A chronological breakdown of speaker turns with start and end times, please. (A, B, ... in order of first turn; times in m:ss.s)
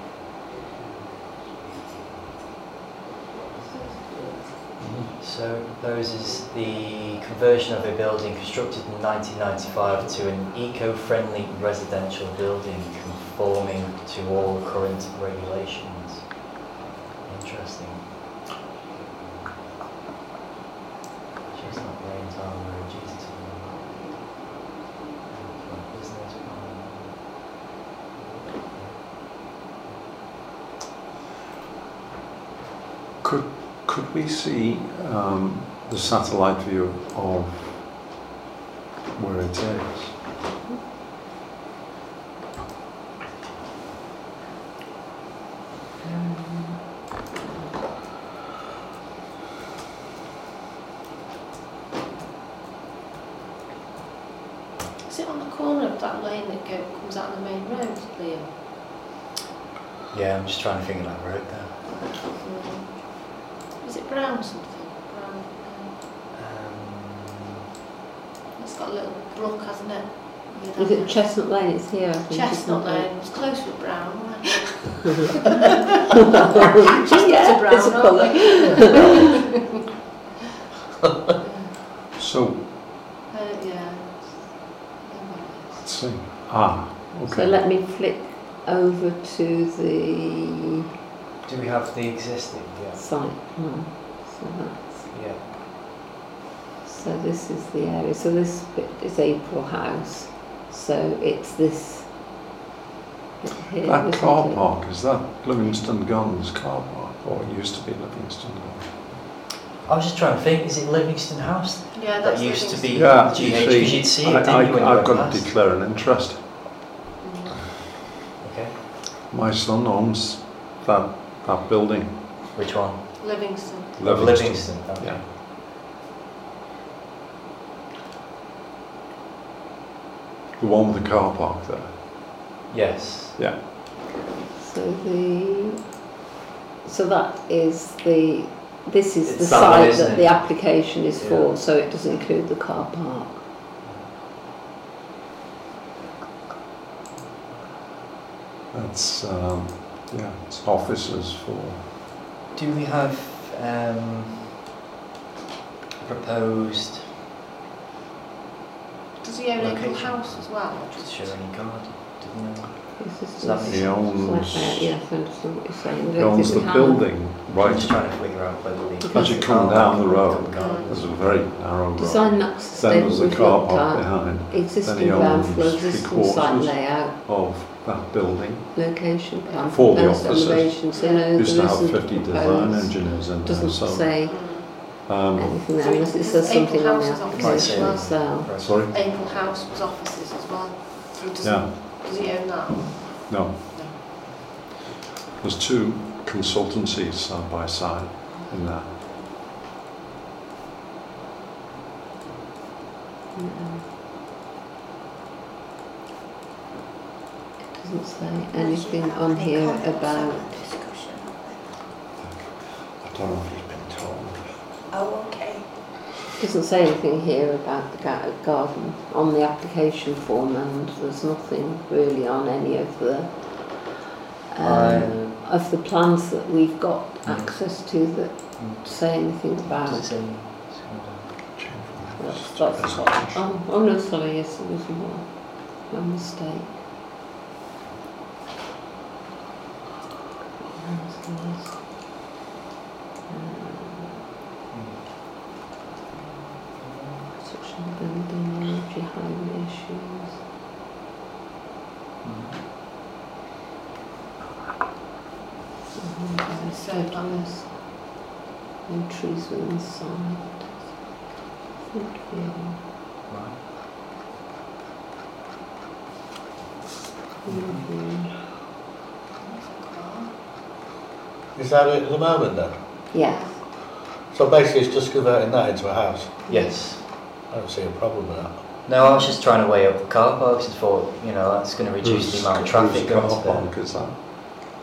0:04.8-0:16.6 A
0:17.2-0:18.3 A
0:18.9-0:19.7 A
0:21.5-0:24.4 A
0:25.3-0:27.3 A
0:28.6-0:29.2 A
0:33.2-0:37.9 B
0:39.2-0:40.2 B
0:46.0-0:47.7 C
0:55.0-0:58.6 D
1:00.1-1:02.0 A
1:02.1-1:06.0 D
1:06.3-1:07.4 A
1:08.6-1:11.4 D
1:10.8-1:13.1 C
1:12.3-1:15.8 D
1:15.0-1:15.3 C
1:16.2-1:19.4 C
1:16.4-1:19.4 D
1:21.4-1:21.8 D
1:22.2-1:22.6 B
1:23.3-1:25.9 D
1:25.8-1:27.6 B
1:27.3-1:30.7 C
1:31.4-1:33.0 A
1:33.0-1:35.1 C
1:35.1-1:35.4 A
1:36.8-1:42.1 C
1:43.4-1:44.8 C
1:43.8-1:49.0 B
1:49.8-1:55.5 A
1:51.9-1:54.0 D
1:52.9-1:56.8 B
1:57.2-1:57.6 D
1:58.4-1:58.8 A
1:59.3-2:02.2 B
2:02.6-2:03.4 A
2:03.2-2:04.0 D
2:04.0-2:05.3 B
2:04.0-2:05.2 A
2:10.6-2:11.9 B
2:12.7-2:13.4 A
2:14.5-2:15.8 C
2:16.8-2:23.4 C
2:19.2-2:21.5 A
2:23.8-2:24.1 A
2:28.7-2:31.9 B
2:32.6-2:34.5 A
2:36.0-2:37.1 A
2:39.2-2:41.4 D
2:39.6-2:44.0 A
2:43.0-2:47.3 C
2:43.7-2:45.0 B
2:46.2-2:48.1 B
2:47.6-2:51.1 A
2:49.0-2:49.8 C
2:49.1-2:59.0 B
2:50.5-2:51.0 D
2:52.0-2:57.2 C
2:58.7-3:08.6 C
2:59.7-3:04.4 B
3:00.9-3:01.4 D
3:04.3-3:05.1 D
3:05.1-3:05.6 B
3:05.8-3:14.0 D
3:07.3-3:08.8 A
3:08.6-3:08.9 B
3:11.4-3:11.9 B
3:12.5-3:13.7 B
3:15.4-3:19.0 B
3:23.4-3:23.9 C
3:27.7-3:30.6 C
3:28.5-3:31.8 E
3:32.2-3:34.6 B
3:34.9-3:35.7 E
3:36.4-3:43.9 C
3:44.5-3:50.1 C
3:44.6-3:45.4 A
3:47.2-3:47.6 A
3:48.3-3:48.9 A
3:49.8-3:51.4 A
3:51.6-3:53.5 B
3:52.2-3:56.8 C
4:00.6-4:01.9 C
4:03.3-4:04.2 C
4:04.7-4:05.2 A
4:06.8-4:07.2 A
4:07.4-4:10.4 C
4:12.2-4:12.6 A
4:16.0-4:17.8 C
4:16.5-4:17.7 D
4:18.9-4:20.8 C
4:21.9-4:22.8 C
4:23.3-4:23.6 A
4:27.4-4:27.9 A
4:27.4-4:28.3 C
4:29.4-4:30.3 D
4:31.6-4:32.8 F
4:33.1-4:33.6 C
4:33.2-4:33.6 D
4:34.2-4:36.4 F
4:36.5-4:36.9 C
4:36.5-4:37.0 A
4:37.4-4:38.6 F
4:38.9-4:43.7 A
4:42.0-4:44.2 B